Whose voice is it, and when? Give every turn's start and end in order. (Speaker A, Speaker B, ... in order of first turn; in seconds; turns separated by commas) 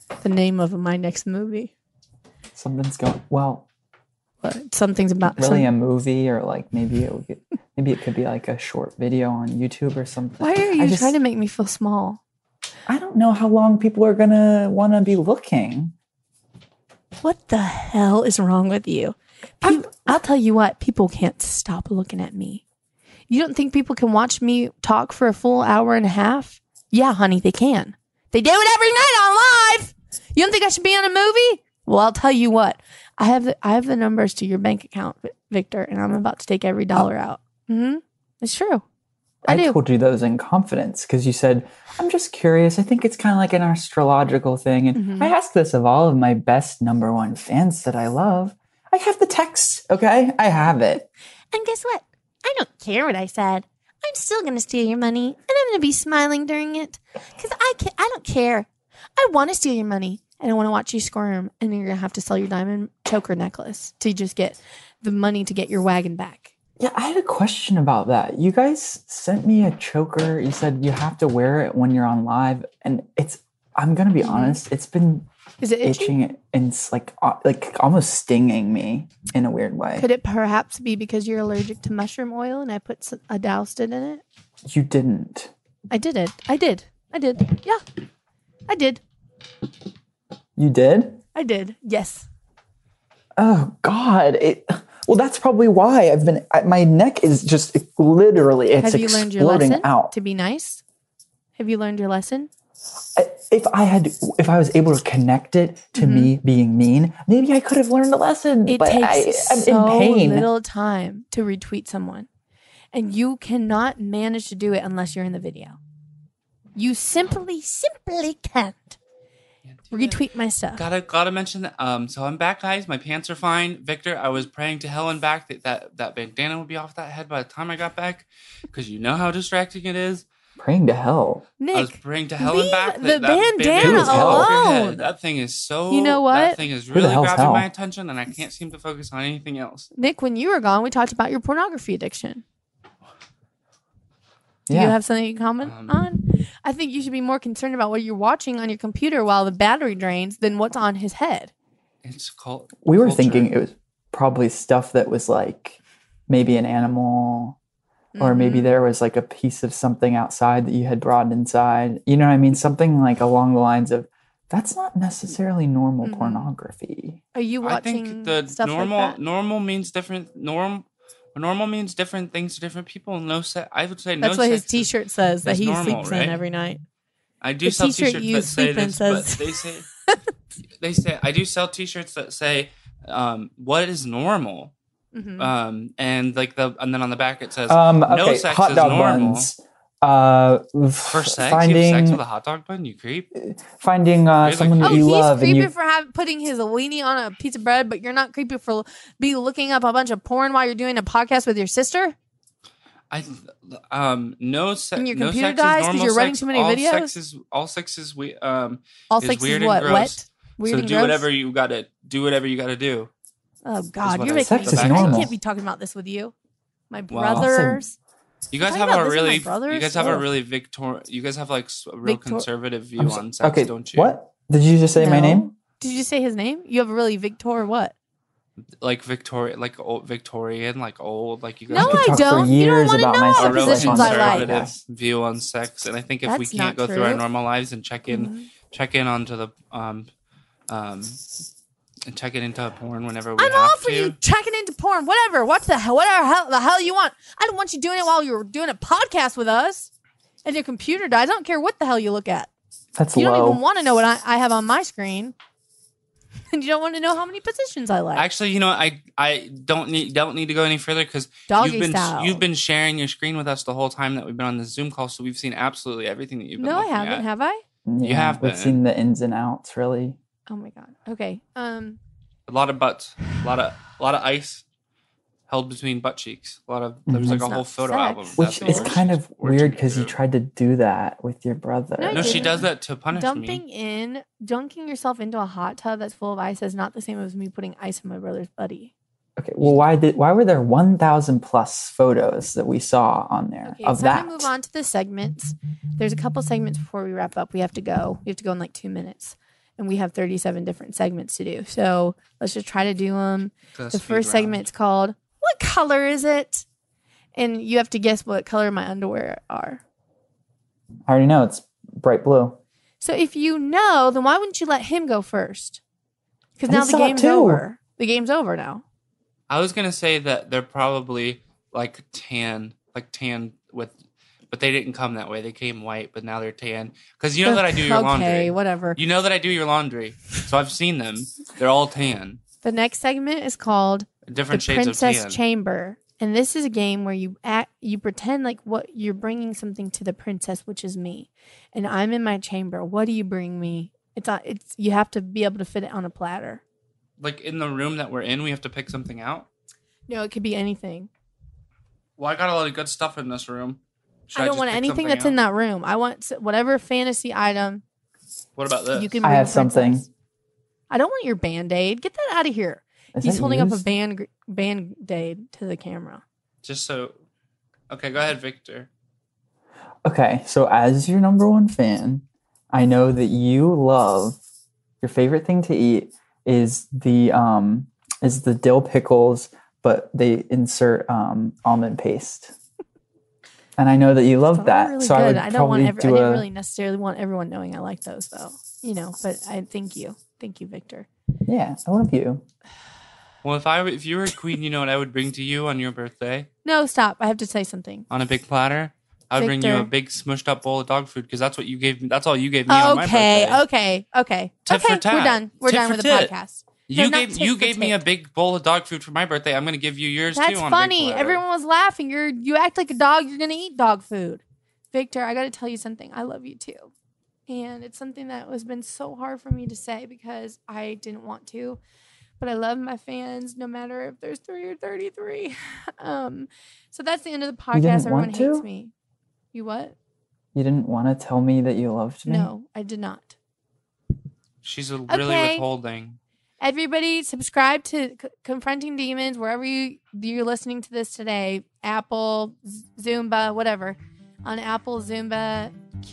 Speaker A: 0.2-1.7, Speaker B: 2.5-3.6, Speaker A: 4.4-5.7, Speaker B: 5.3-11.1, Speaker A: 10.4-12.2, Speaker B: 12.9-15.9, Speaker A: 17.2-22.6, Speaker A: 23.3-38.8, Speaker B: 39.4-51.1, Speaker A: 39.5-39.8, Speaker A: 44.9-45.3, Speaker A: 51.5-66.5, Speaker B: 66.8-75.2, Speaker A: 74.2-74.6, Speaker A: 75.6-76.1, Speaker B: 75.8-80.1, Speaker A: 80.0-84.2, Speaker B: 84.6-85.5, Speaker A: 85.9-87.8, Speaker A: 88.7-89.0, Speaker B: 90.5-91.2, Speaker A: 91.3-92.3, Speaker B: 93.4-100.1, Speaker A: 98.8-100.8, Speaker A: 101.6-102.5, Speaker B: 103.1-110.5, Speaker A: 105.9-106.3, Speaker A: 108.7-112.3, Speaker A: 112.9-115.8, Speaker A: 116.8-119.0, Speaker C: 119.6-120.2, Speaker A: 119.9-120.8, Speaker C: 120.8-130.2, Speaker B: 130.6-131.4, Speaker A: 131.6-135.1, Speaker C: 131.7-139.9, Speaker B: 133.8-134.5, Speaker A: 135.9-136.6, Speaker B: 136.9-137.7, Speaker A: 139.9-142.4, Speaker B: 144.7-145.0, Speaker A: 144.7-151.5, Speaker C: 145.6-146.0, Speaker C: 152.0-153.5, Speaker B: 152.8-157.6, Speaker A: 158.1-158.7, Speaker B: 158.2-167.2, Speaker A: 166.0-166.5, Speaker A: 167.3-169.2, Speaker C: 167.6-174.9, Speaker A: 174.2-176.8, Speaker C: 175.4-176.4, Speaker C: 177.4-179.9, Speaker A: 177.6-180.2, Speaker C: 180.8-184.7, Speaker A: 185.1-185.5, Speaker C: 185.4-189.5, Speaker B: 187.7-192.2, Speaker C: 191.1-193.3, Speaker B: 193.3-195.7, Speaker C: 194.4-195.1, Speaker A: 194.8-202.1, Speaker C: 203.1-213.1, Speaker A: 204.9-207.2, Speaker A: 209.1-211.3, Speaker A: 213.6-216.3, Speaker C: 214.0-215.3, Speaker B: 214.3-215.3, Speaker A: 216.9-217.9, Speaker C: 217.1-217.5, Speaker B: 217.3-217.8, Speaker C: 218.5-224.1, Speaker A: 218.6-220.2, Speaker A: 222.0-222.5, Speaker B: 223.0-225.5, Speaker A: 224.9-227.9, Speaker C: 228.6-232.2, Speaker A: 231.7-234.7, Speaker B: 231.7-234.8, Speaker C: 233.3-240.1, Speaker A: 236.2-237.2, Speaker A: 238.1-238.5, Speaker C: 240.7-241.2, Speaker C: 242.0-244.2, Speaker A: 243.4-249.9, Speaker A: 250.4-252.5, Speaker B: 252.9-253.6, Speaker A: 253.1-255.3, Speaker A: 256.5-258.2, Speaker C: 258.1-267.2, Speaker A: 261.5-262.4, Speaker A: 266.6-267.6, Speaker B: 267.9-270.2, Speaker C: 268.0-268.8, Speaker A: 270.5-272.0, Speaker C: 272.5-274.6, Speaker C: 275.5-280.2, Speaker B: 277.1-277.6, Speaker A: 277.3-279.0, Speaker B: 278.4-282.7, Speaker A: 282.0-288.9, Speaker C: 282.1-283.6, Speaker B: 289.4-294.5, Speaker C: 289.6-289.8, Speaker A: 293.6-306.6, Speaker C: 303.7-304.7, Speaker A: 307.3-309.8, Speaker B: 311.1-312.6, Speaker A: 313.0-315.8, Speaker A: 316.6-318.8, Speaker B: 316.7-317.6, Speaker C: 319.5-323.9, Speaker C: 324.5-332.4, Speaker A: 327.4-329.0, Speaker A: 332.6-346.6, Speaker C: 334.3-335.4, Speaker C: 347.2-349.5, Speaker A: 350.1-351.1, Speaker C: 352.2-355.4, Speaker A: 354.3-357.8, Speaker C: 358.6-359.2, Speaker A: 358.9-360.0, Speaker B: 359.2-360.1, Speaker A: 360.9-366.2, Speaker B: 363.1-363.8, Speaker C: 366.6-367.1, Speaker C: 367.9-368.9, Speaker B: 370.0-374.4, Speaker B: 375.0-382.5, Speaker B: 383.8-386.5, Speaker A: 384.5-391.1, Speaker B: 391.5-392.4, Speaker C: 393.4-396.5, Speaker A: 396.6-398.1, Speaker C: 398.1-403.6, Speaker A: 399.4-399.9, Speaker A: 402.7-408.0, Speaker C: 404.7-406.3, Speaker C: 406.9-411.4, Speaker A: 410.3-416.9, Speaker A: 417.5-421.8, Speaker A: 422.4-428.9, Speaker B: 427.7-428.6, Speaker A: 429.5-429.9, Speaker B: 430.5-432.5, Speaker A: 432.2-433.3, Speaker C: 434.6-436.2, Speaker A: 435.1-435.6, Speaker A: 436.6-445.8